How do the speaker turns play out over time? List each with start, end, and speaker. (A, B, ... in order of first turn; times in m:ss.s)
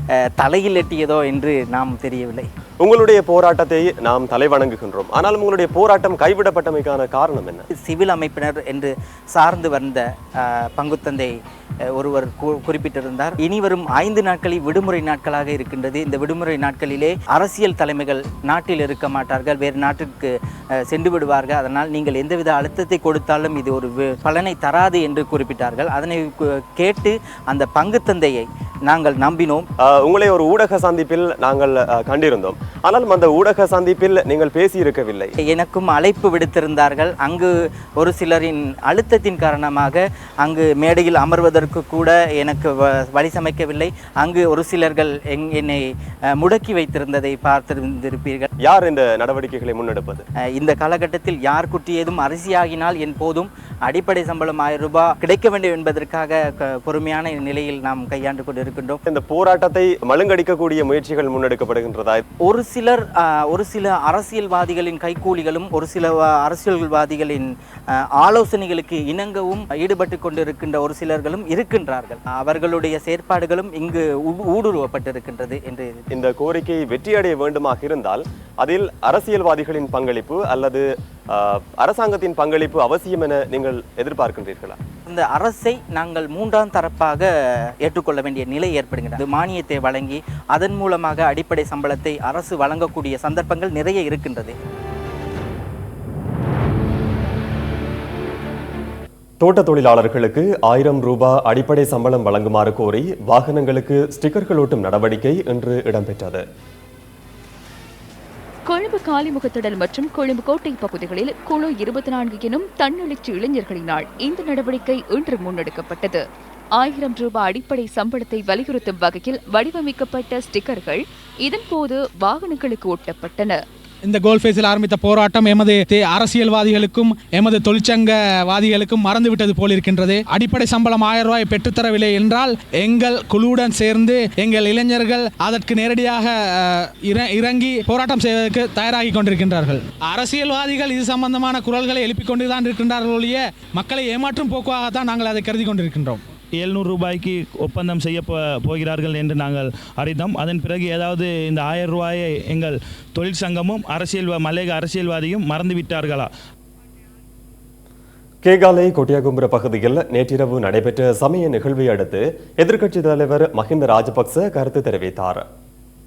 0:00.2-0:02.5 A
0:02.8-0:07.7 B
0:07.8-0:11.4 A
0:11.9-0:29.7 A
0:29.8-0:35.3 B
0:35.5-0:48.5 A
0:48.6-0:50.3 B
0:50.6-0:59.0 A
0:59.1-1:02.2 B
1:02.4-1:16.0 A
1:16.1-1:24.8 B
1:25.1-1:27.3 A
1:27.8-1:34.6 A
1:39.4-1:46.4 B
1:48.7-1:56.2 C
1:56.8-2:03.6 C
2:04.0-2:26.2 D
2:26.6-2:36.3 E
2:38.4-2:45.5 B